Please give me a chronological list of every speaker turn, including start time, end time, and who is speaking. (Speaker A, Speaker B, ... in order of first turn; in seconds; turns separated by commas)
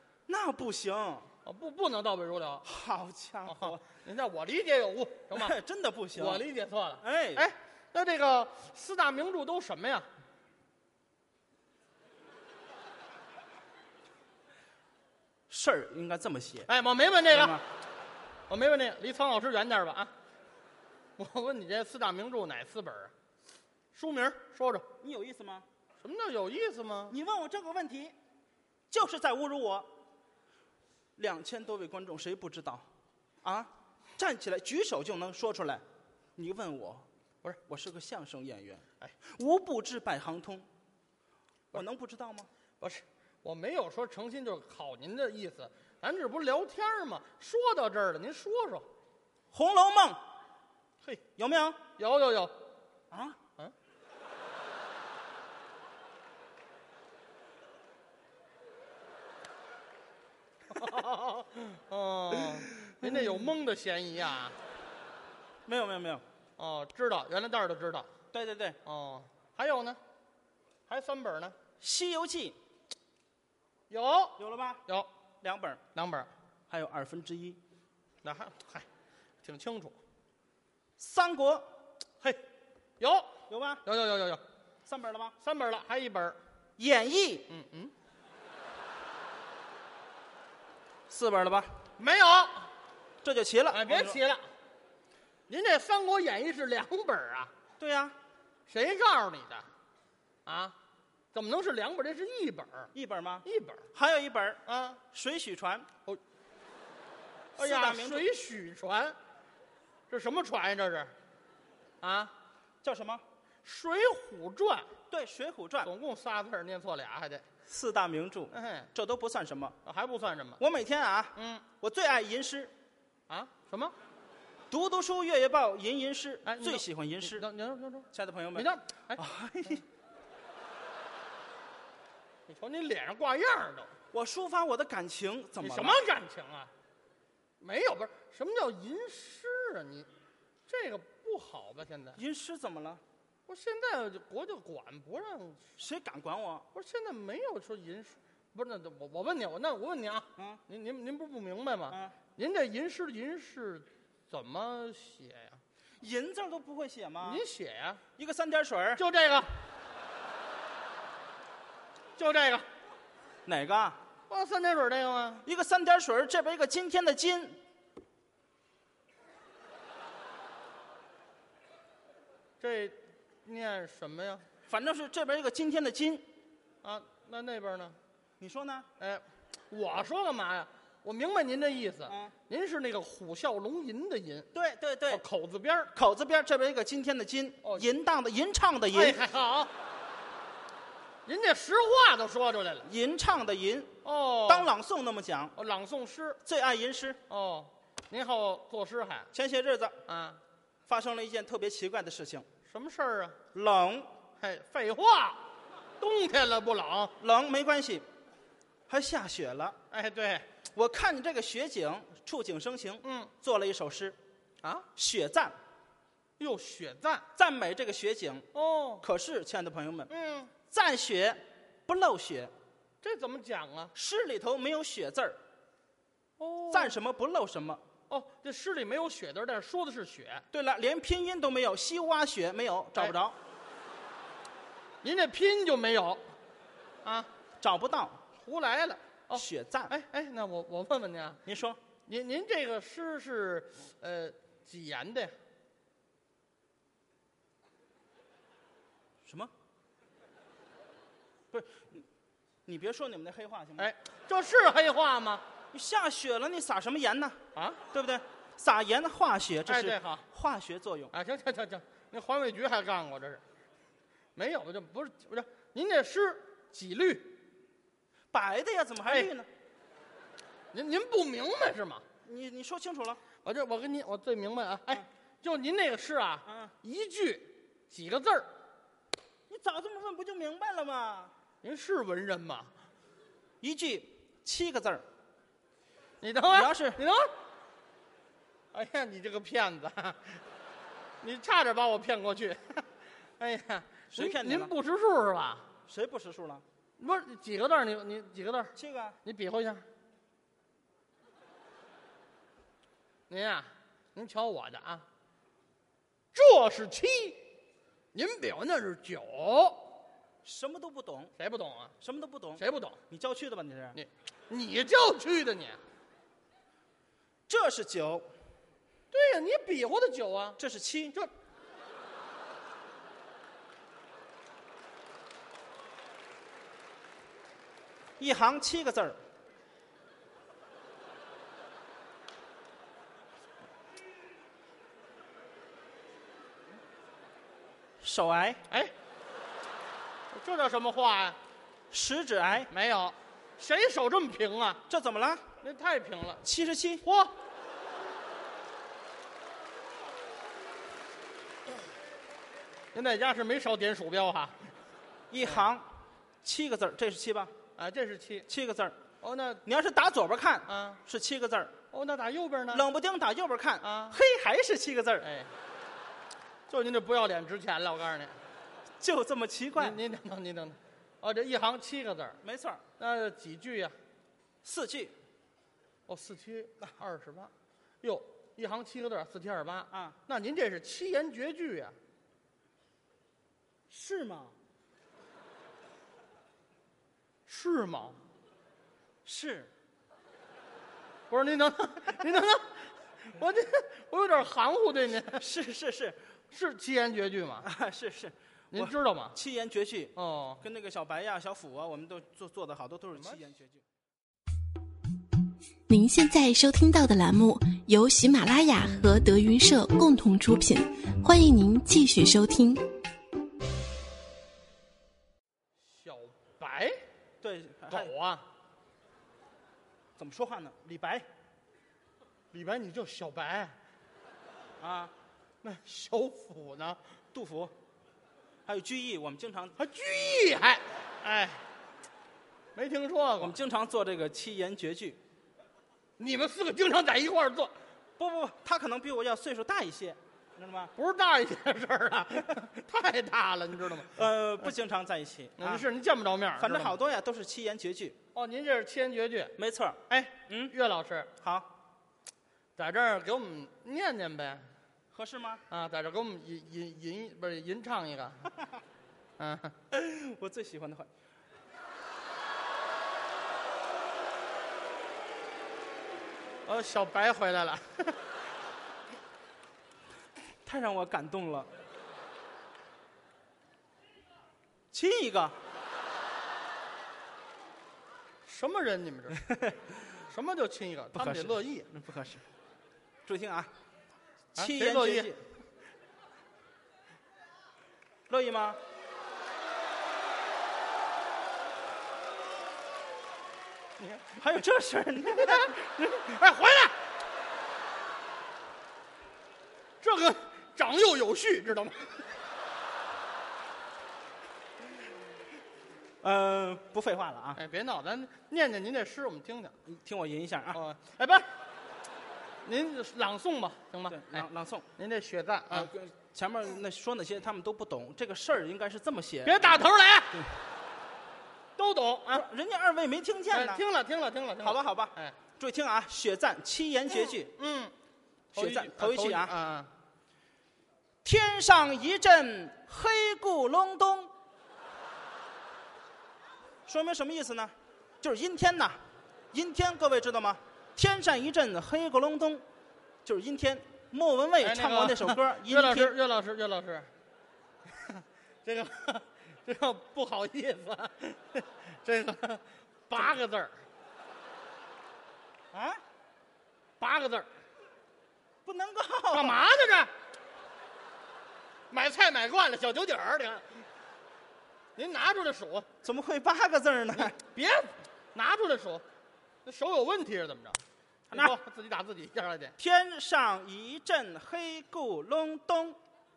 Speaker A: 0.3-1.3, Speaker B: 1.4-2.6, Speaker A: 2.6-3.8, Speaker B: 3.5-5.5, Speaker A: 5.3-6.4, Speaker B: 6.1-10.1, Speaker A: 7.0-7.5, Speaker A: 15.5-16.7, Speaker B: 16.7-17.6, Speaker A: 17.3-17.6, Speaker B: 18.5-20.1, Speaker B: 21.2-23.1, Speaker B: 23.9-24.9, Speaker A: 25.0-25.6, Speaker B: 26.0-27.1, Speaker A: 27.1-28.1, Speaker A: 28.9-29.9, Speaker A: 31.2-32.9, Speaker A: 33.4-35.8, Speaker A: 36.4-37.0, Speaker A: 37.7-40.7, Speaker A: 41.7-42.5, Speaker B: 42.8-48.9, Speaker A: 49.5-50.2, Speaker A: 51.4-51.8, Speaker B: 52.0-52.5, Speaker A: 53.1-53.4, Speaker B: 60.7-64.5, Speaker A: 63.0-63.3, Speaker A: 65.7-66.2, Speaker B: 66.6-68.1, Speaker A: 68.3-68.8, Speaker B: 68.8-70.0, Speaker B: 70.9-71.5, Speaker A: 71.8-72.6, Speaker B: 73.9-75.1, Speaker A: 74.4-74.8, Speaker A: 75.4-75.8, Speaker B: 75.9-76.3, Speaker A: 76.7-77.6, Speaker B: 78.2-78.8, Speaker B: 79.4-80.0, Speaker A: 81.0-81.7, Speaker B: 83.0-83.3, Speaker A: 83.5-83.8, Speaker B: 83.8-84.4, Speaker A: 84.8-85.3, Speaker B: 85.4-86.4, Speaker A: 86.8-87.5, Speaker B: 87.5-87.9, Speaker A: 91.1-91.8, Speaker B: 92.0-92.7, Speaker A: 93.2-94.2, Speaker B: 93.7-94.4, Speaker B: 95.5-97.5, Speaker A: 97.8-98.2, Speaker B: 98.7-99.7, Speaker B: 100.5-100.7, Speaker B: 101.3-102.9, Speaker A: 102.9-105.9, Speaker B: 103.4-103.8, Speaker B: 104.7-105.0, Speaker A: 107.5-108.3, Speaker B: 107.6-109.2, Speaker B: 110.1-111.1, Speaker B: 112.0-112.3, Speaker A: 112.8-113.2, Speaker B: 113.6-114.9, Speaker A: 115.1-115.9, Speaker B: 115.8-117.4, Speaker A: 117.7-119.8, Speaker B: 118.5-118.9, Speaker B: 119.8-120.6, Speaker A: 120.6-122.7, Speaker B: 121.3-121.6, Speaker B: 123.3-123.9, Speaker A: 124.7-127.4, Speaker B: 126.4-129.2, Speaker A: 128.1-129.8, Speaker B: 132.5-133.9, Speaker A: 134.1-136.0, Speaker B: 135.6-136.7, Speaker B: 137.6-140.1, Speaker B: 140.7-142.2, Speaker A: 142.2-143.0, Speaker B: 143.5-145.6, Speaker A: 145.8-146.7, Speaker B: 146.7-155.6, Speaker A: 150.4-150.6, Speaker A: 151.9-152.1, Speaker A: 156.0-157.4, Speaker B: 157.2-158.0, Speaker A: 158.2-159.0, Speaker B: 159.0-159.5, Speaker B: 162.2-162.7, Speaker A: 163.4-164.0, Speaker B: 164.3-165.4, Speaker A: 165.4-167.6, Speaker B: 172.6-174.4, Speaker A: 174.7-176.3, Speaker B: 176.8-178.0, Speaker A: 178.4-178.9, Speaker B: 179.0-184.5, Speaker A: 182.1-182.3, Speaker A: 184.5-185.2, Speaker B: 185.1-185.9, Speaker A: 185.9-189.2, Speaker B: 188.9-189.7, Speaker B: 191.2-192.9, Speaker A: 192.8-195.5, Speaker B: 194.0-194.7, Speaker B: 195.6-196.4, Speaker A: 196.4-197.2, Speaker B: 197.3-199.3, Speaker A: 199.3-200.0, Speaker B: 200.1-200.4, Speaker A: 200.9-202.4, Speaker B: 202.7-203.4, Speaker A: 203.5-204.1, Speaker B: 204.4-205.4, Speaker B: 206.0-207.1, Speaker A: 207.2-208.1, Speaker A: 208.9-209.8, Speaker B: 209.9-210.5, Speaker A: 210.7-214.2, Speaker B: 213.0-213.3, Speaker A: 214.9-215.5, Speaker B: 216.4-217.2, Speaker A: 217.3-218.5, Speaker B: 218.5-219.0, Speaker A: 219.0-220.1, Speaker B: 220.1-220.5, Speaker A: 220.7-222.5, Speaker B: 223.0-223.9, Speaker A: 223.9-225.4, Speaker B: 226.4-227.0, Speaker A: 226.7-227.8, Speaker B: 228.1-230.4, Speaker A: 230.5-233.4, Speaker B: 235.0-236.2, Speaker A: 237.6-238.2, Speaker B: 238.4-241.4, Speaker A: 239.3-239.9, Speaker A: 241.4-241.8, Speaker B: 242.1-245.3, Speaker A: 249.2-249.5, Speaker A: 251.5-252.0, Speaker A: 252.7-253.9, Speaker B: 253.8-255.4, Speaker A: 255.7-257.4, Speaker B: 257.5-257.8, Speaker A: 257.9-261.1, Speaker B: 259.6-260.2, Speaker B: 261.1-263.4, Speaker B: 264.4-267.4, Speaker A: 268.3-269.5, Speaker B: 270.7-272.0, Speaker A: 272.2-273.2, Speaker B: 273.4-278.5, Speaker A: 276.4-276.7, Speaker A: 279.5-281.3, Speaker B: 281.6-282.7, Speaker A: 283.6-285.0, Speaker B: 286.2-287.3, Speaker A: 286.5-287.0, Speaker B: 288.7-290.4, Speaker B: 291.2-292.9, Speaker B: 293.4-295.7, Speaker A: 294.1-294.7, Speaker A: 295.9-296.6, Speaker B: 297.0-299.8, Speaker A: 298.7-299.2, Speaker B: 303.3-305.1, Speaker B: 306.3-307.4, Speaker B: 308.1-310.0, Speaker A: 310.4-311.3, Speaker B: 311.4-311.9, Speaker A: 312.0-314.0, Speaker B: 312.6-313.0, Speaker B: 313.9-315.8, Speaker A: 317.5-318.3, Speaker B: 319.1-320.6, Speaker A: 320.6-321.1, Speaker A: 328.2-329.2, Speaker A: 338.0-338.6, Speaker B: 340.3-341.4, Speaker A: 341.9-342.7, Speaker B: 342.7-344.8, Speaker A: 344.9-345.5, Speaker B: 345.6-346.4, Speaker A: 346.4-347.0, Speaker B: 347.0-347.3, Speaker B: 352.9-354.6, Speaker A: 355.3-357.5, Speaker B: 357.8-358.5, Speaker A: 358.5-359.0, Speaker B: 359.2-359.6, Speaker A: 359.6-361.7, Speaker B: 360.7-361.0, Speaker B: 361.9-362.8, Speaker A: 362.7-365.2, Speaker B: 363.8-364.2, Speaker B: 365.2-365.5, Speaker B: 366.7-368.3, Speaker A: 369.0-370.0, Speaker B: 369.8-372.4, Speaker A: 372.4-372.8, Speaker B: 373.0-373.9, Speaker A: 374.6-375.1, Speaker B: 376.1-381.9, Speaker A: 379.9-380.2, Speaker A: 383.9-384.5, Speaker B: 387.5-388.2, Speaker A: 389.2-389.7, Speaker B: 391.3-395.4, Speaker A: 395.4-396.2, Speaker B: 396.5-397.7, Speaker A: 397.6-403.8, Speaker B: 398.7-399.4, Speaker B: 400.1-400.6, Speaker C: 405.9-412.8, Speaker B: 415.9-417.0, Speaker A: 417.4-418.1, Speaker B: 417.9-418.4, Speaker A: 420.2-421.3, Speaker B: 422.5-423.8, Speaker A: 424.8-425.1, Speaker B: 425.6-427.0, Speaker A: 427.3-427.7, Speaker A: 428.6-429.8, Speaker B: 429.8-431.6, Speaker B: 432.7-433.6, Speaker A: 433.4-435.2, Speaker B: 436.2-437.7, Speaker A: 438.2-440.9, Speaker B: 440.9-444.2, Speaker A: 444.1-445.9, Speaker B: 445.6-446.9, Speaker A: 446.6-448.2, Speaker B: 448.3-449.5, Speaker A: 449.6-450.7, Speaker B: 450.1-451.3, Speaker A: 451.4-451.7, Speaker B: 452.8-454.6, Speaker A: 455.1-455.6, Speaker B: 455.7-458.5, Speaker B: 459.4-459.8, Speaker A: 459.9-461.1, Speaker B: 466.6-468.2, Speaker A: 470.6-471.7, Speaker A: 474.9-475.6, Speaker B: 478.4-479.4, Speaker A: 479.4-479.8, Speaker B: 480.3-481.9, Speaker A: 481.1-482.4, Speaker A: 483.2-483.7, Speaker B: 484.6-485.3, Speaker A: 484.6-485.4, Speaker A: 488.3-488.8, Speaker B: 494.0-494.4, Speaker A: 494.4-496.1, Speaker B: 495.3-496.9, Speaker B: 500.0-502.2, Speaker A: 506.2-507.6, Speaker B: 507.6-509.7, Speaker A: 509.9-510.8, Speaker B: 510.7-511.5, Speaker B: 512.6-515.9, Speaker A: 514.1-514.9, Speaker A: 515.7-520.5, Speaker B: 519.4-520.4, Speaker B: 521.8-522.5, Speaker A: 522.3-523.8, Speaker B: 523.5-525.4, Speaker A: 524.6-527.5, Speaker B: 527.1-527.9, Speaker A: 528.5-529.5, Speaker B: 528.5-529.9, Speaker A: 531.2-534.3, Speaker A: 536.9-539.0, Speaker A: 539.5-542.6, Speaker A: 543.2-546.1, Speaker B: 544.6-547.1, Speaker B: 548.0-553.7, Speaker A: 555.7-556.0, Speaker B: 557.0-557.5, Speaker A: 558.6-559.6, Speaker B: 559.3-560.1, Speaker B: 561.9-563.8, Speaker B: 565.0-565.9, Speaker A: 566.0-567.4, Speaker B: 567.1-569.0, Speaker B: 569.6-570.8, Speaker A: 571.3-571.5, Speaker B: 571.3-572.7, Speaker A: 572.8-576.0